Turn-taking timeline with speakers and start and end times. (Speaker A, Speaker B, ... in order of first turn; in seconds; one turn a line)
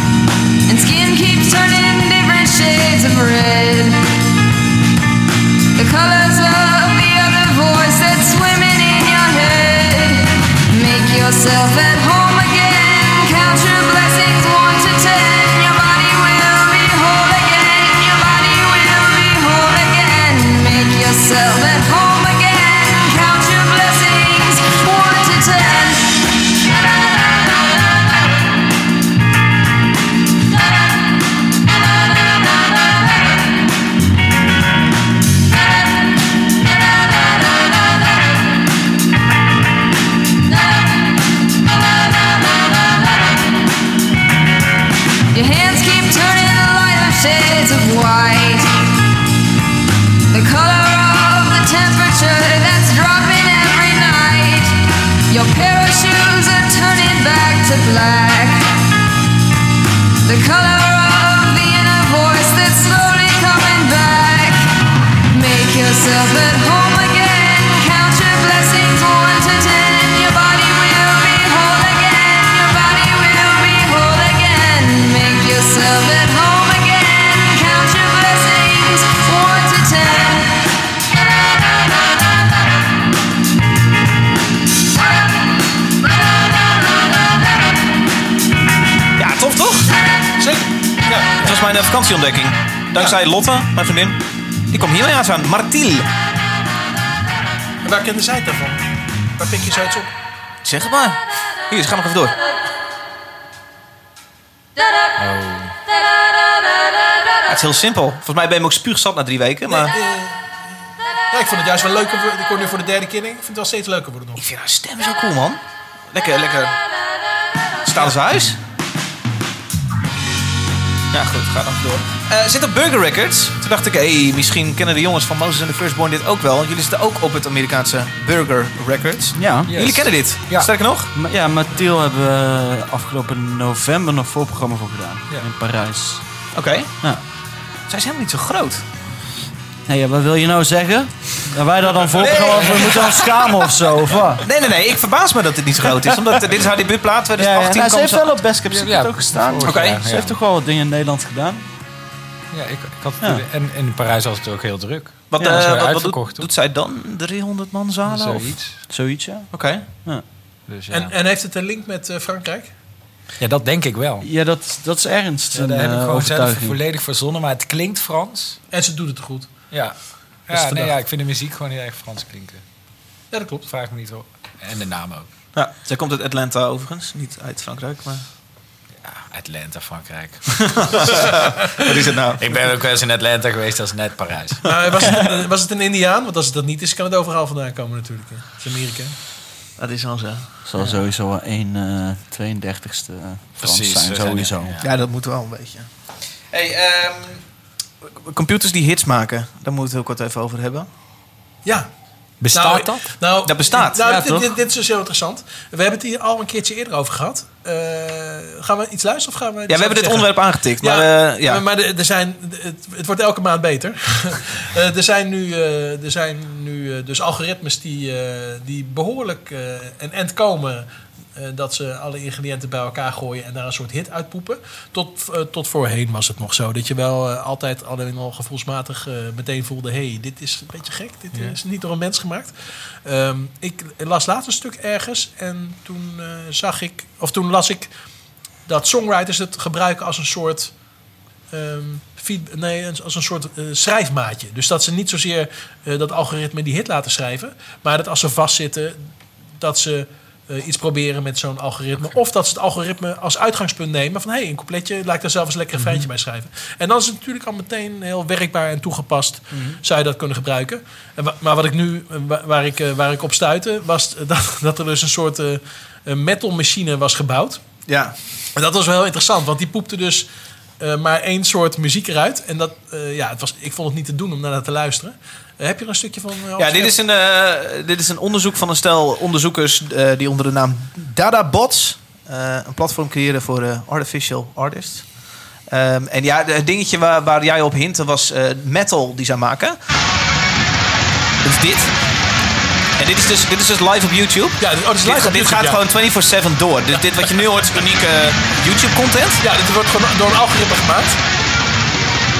Speaker A: 0.7-4.1
Speaker A: 5.7-26.2
Speaker A: 45.3-48.8
Speaker A: 50.3-58.8
Speaker A: 60.2-64.7
Speaker A: 65.3-80.7
Speaker B: 89.2-89.9
Speaker C: 90.4-91.4
Speaker B: 91.4-96.1
Speaker C: 97.8-98.8
Speaker C: 99.4-100.1
Speaker B: 100.6-102.4
Speaker D: 105.2-105.7
Speaker B: 107.5-109.9
Speaker C: 109.7-110.5
Speaker C: 111.3-114.4
Speaker B: 114.4-116.8
Speaker B: 117.8-118.6
Speaker B: 121.1-131.1
Speaker E: 129.3-129.7
Speaker D: 129.7-130.7
Speaker E: 131.1-136.2
Speaker B: 136.5-136.9
Speaker B: 137.9-138.8
Speaker E: 139.9-144.5
Speaker B: 142.2-143.4
Speaker D: 142.3-143.0
Speaker B: 144.4-148.4
Speaker E: 147.4-151.6
Speaker D: 148.7-150.4
Speaker B: 149.6-150.0
Speaker D: 152.5-156.5
Speaker B: 155.3-158.6
Speaker E: 155.4-155.7
Speaker D: 158.1-158.8
Speaker E: 158.9-160.2
Speaker B: 159.5-159.8
Speaker D: 160.7-161.1
Speaker C: 160.9-162.7
Speaker D: 163.4-164.3
Speaker E: 164.2-166.8
Speaker D: 165.5-168.6
Speaker C: 168.7-169.5
Speaker D: 170.5-172.6
Speaker C: 170.5-170.9
Speaker C: 173.3-173.7
Speaker D: 173.7-175.3
Speaker B: 175.5-178.2
Speaker D: 179.0-181.3
Speaker B: 180.8-182.4
Speaker D: 182.4-184.7
Speaker C: 184.7-189.1
Speaker B: 189.8-190.5
Speaker E: 190.6-194.8
Speaker D: 193.6-194.8
Speaker B: 194.8-195.9
Speaker B: 196.5-197.4
Speaker B: 198.2-200.9
Speaker D: 202.4-203.1
Speaker C: 202.5-232.5
Speaker B: 203.4-204.1
Speaker E: 204.0-204.5
Speaker B: 209.7-211.6
Speaker C: 233.0-237.9
Speaker C: 238.7-240.7
Speaker C: 241.5-267.6
Speaker B: 267.9-268.1
Speaker C: 268.6-270.3
Speaker C: 270.8-277.0
Speaker B: 276.6-285.1
Speaker B: 285.7-289.8
Speaker B: 291.4-291.9
Speaker B: 293.0-299.4
Speaker C: 294.6-295.8
Speaker C: 299.4-301.2